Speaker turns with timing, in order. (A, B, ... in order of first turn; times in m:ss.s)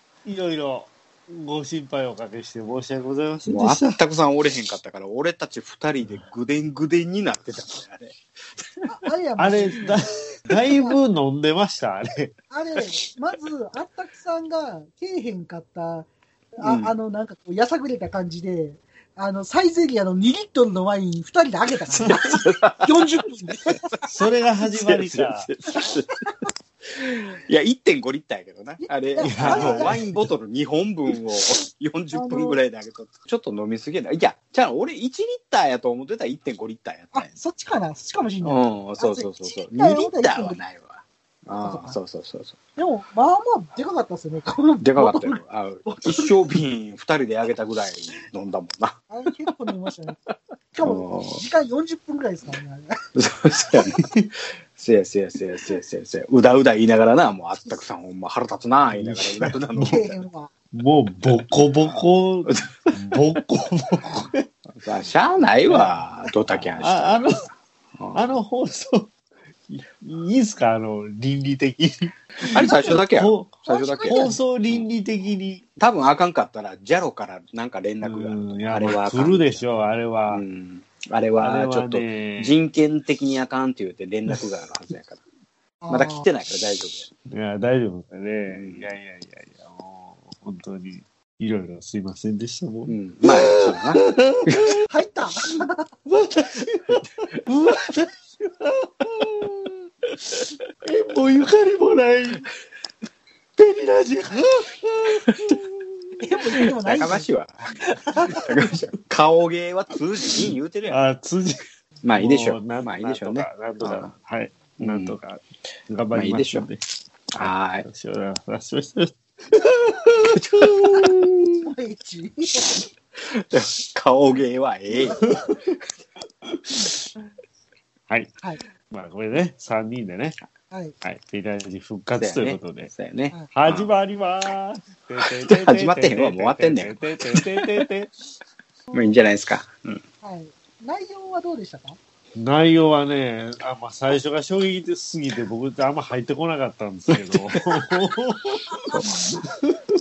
0:00.2-0:04.0 A
0:03.5-0:08.2 B
0:08.8-0:10.0 C
0:09.4-0:12.4 A
0:10.6-0:11.0 C
0:12.5-0:23.9 C
0:16.6-0:16.9 B
0:22.1-0:23.0 B
0:23.7-0:24.0 B
0:24.0-0:25.5 A
0:24.6-0:37.3 B
0:27.0-0:27.3 C
0:28.8-0:30.0 C
0:29.2-0:30.3 A
0:32.1-0:32.6 C
0:37.1-0:40.6 C
0:38.4-0:42.6 B
0:41.6-0:42.0 C
0:42.8-0:46.6 C
0:44.8-0:49.0 B
0:49.1-0:50.2 C
0:50.7-0:53.0 C
0:50.8-0:51.4 B
0:53.2-0:54.2 B
0:54.8-1:00.2 B
0:58.9-1:00.0 A
0:59.8-1:00.5 C
1:00.7-1:04.5 A
1:01.3-1:01.9 B
1:04.7-1:07.3 B
1:05.7-1:07.5 A
1:08.0-1:08.4 B
1:08.1-1:09.1 A
1:09.7-1:15.7 A
1:12.4-1:14.8 B
1:13.7-1:14.4 C
1:15.8-1:25.2 B
1:18.0-1:20.4 A
1:21.4-1:22.6 A
1:25.8-1:26.3 C
1:25.9-1:27.1 B
1:27.3-1:34.8 A
1:28.5-1:28.9 B
1:32.9-1:34.8 B
1:34.9-1:35.9 C
1:36.1-1:39.7 A
1:40.3-1:42.5 A
1:43.6-1:45.8 A
1:45.3-1:45.6 B
1:46.2-1:47.3 C
1:46.8-1:51.0 B
1:50.9-1:51.6 A
1:52.0-1:54.1 B
1:52.2-1:56.8 A
1:54.8-1:55.2 B
1:56.1-1:56.7 B
1:57.4-1:57.9 B
1:57.4-2:00.8 A
2:00.2-2:01.6 B
2:01.6-2:02.7 C
2:03.2-2:05.4 B
2:05.1-2:05.6 A
2:08.9-2:10.4 A
2:11.0-2:12.9 A
2:12.2-2:13.9 B
2:13.5-2:18.1 A
2:15.2-2:17.8 B
2:18.9-2:20.0 B
2:20.2-2:22.0 C
2:22.4-2:29.8 A
2:27.2-2:28.1 B
2:28.9-2:29.2 B